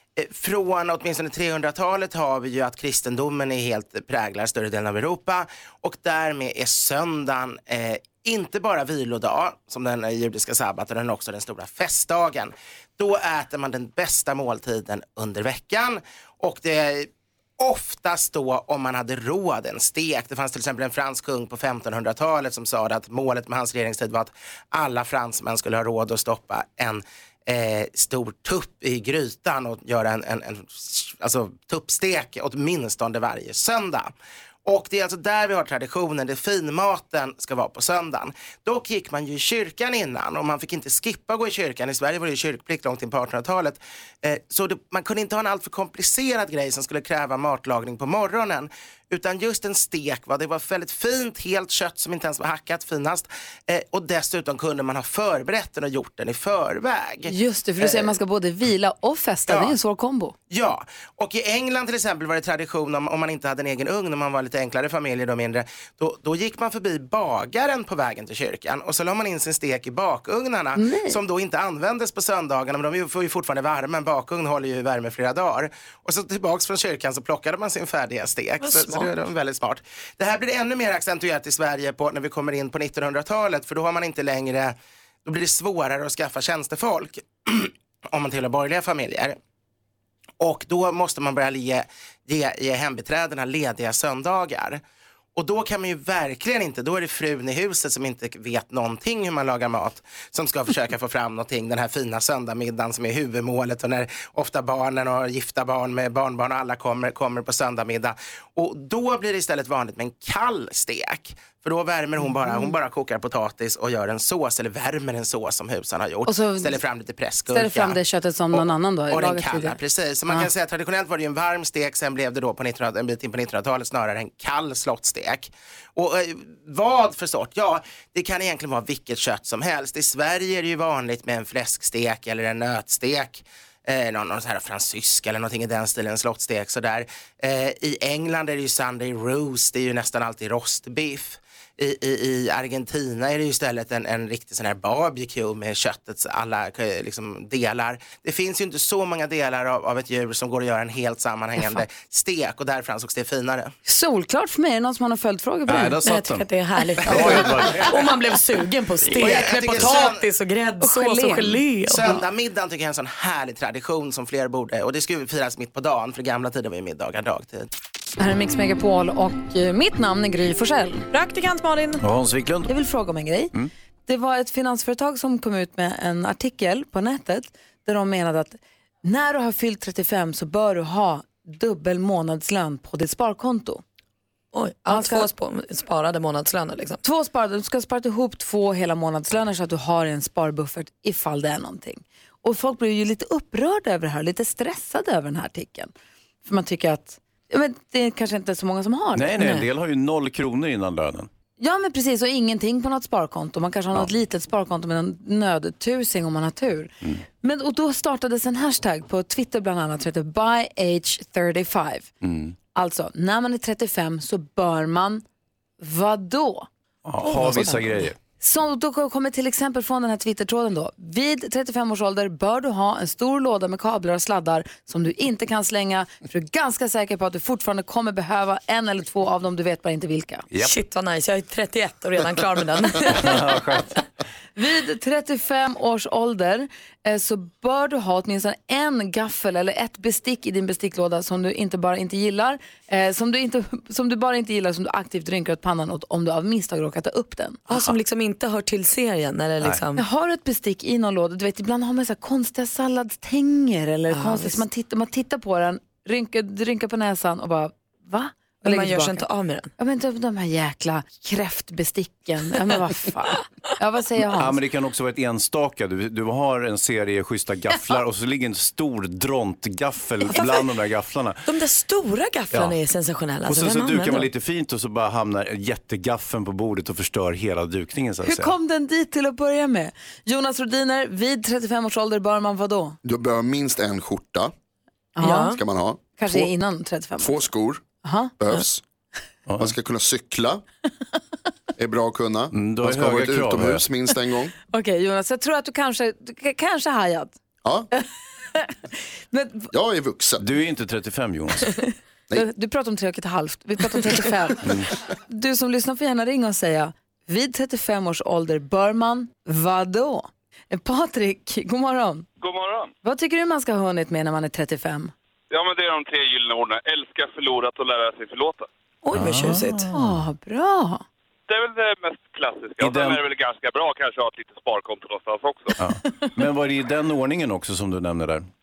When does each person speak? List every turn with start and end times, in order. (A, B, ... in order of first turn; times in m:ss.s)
0:00.2-0:34.1 A
0:34.6-0:58.2 A
0:57.3-1:00.3 B
0:59.5-0:59.8 A
1:00.5-1:29.4 A
1:10.8-1:11.2 B
1:18.6-1:19.1 C
1:30.4-1:34.8 A
1:35.4-1:58.0 A
1:52.2-1:52.8 B
1:56.3-1:56.8 B
1:57.5-2:00.5 B
1:58.5-2:33.7 A
2:33.9-2:36.0 B
2:35.7-2:38.0 D
2:36.0-2:42.2 C
2:39.1-2:40.2 A
2:40.8-2:42.2 B
2:41.8-2:47.7 A
2:48.2-2:51.1 B
2:51.1-2:52.0 C
2:52.0-2:52.7 D
2:52.7-2:53.5 B
2:54.1-3:03.8 B
3:04.5-3:07.0 C
3:04.9-3:05.3 B
3:07.0-3:15.9 B
3:16.4-3:19.6 B
3:19.1-3:21.3 D
3:19.4-3:19.7 C
3:21.6-3:32.1 B
3:32.2-3:32.6 D
3:32.8-3:35.2 B
3:35.8-3:36.7 B
3:37.0-3:38.1 D
3:37.2-3:38.1 C
3:38.4-3:50.5 B
3:50.6-3:53.5 C
3:53.1-3:54.0 D
3:54.6-4:07.7 B
4:07.7-4:10.0 C
4:10.0-4:19.3 B
4:14.1-4:14.6 C
4:18.6-4:19.7 C
4:19.8-4:24.6 B
4:24.3-4:31.5 D
4:30.3-4:30.7 C
4:31.5-4:34.3 C
4:32.5-4:32.8 D
4:33.4-4:38.5 D
4:38.2-4:43.0 B
4:43.0-4:44.5 E
4:45.2-4:45.6 B
4:45.2-4:45.6 C
4:45.5-4:46.5 E
4:46.2-4:47.5 B
4:47.2-4:47.8 E
4:48.0-4:48.4 B
4:48.4-4:48.8 E
4:49.5-4:49.8 D
4:49.6-4:50.6 E
4:51.8-4:54.5 E
4:52.5-4:53.9 D
4:54.7-4:57.4 B
4:57.9-4:58.8 B
4:59.3-4:59.7 B
4:59.7-5:00.4 E
5:00.4-5:01.7 D
5:02.3-5:04.7 B
5:04.6-5:04.9 D
5:05.3-5:12.3 B
5:12.4-5:12.9 F
5:13.0-5:15.1 B
5:15.5-5:18.7 F
5:19.0-5:19.9 C
5:19.1-5:20.1 D
5:19.9-5:21.0 B
5:21.5-5:25.8 F
5:22.8-5:23.2 D
5:25.8-5:28.5 D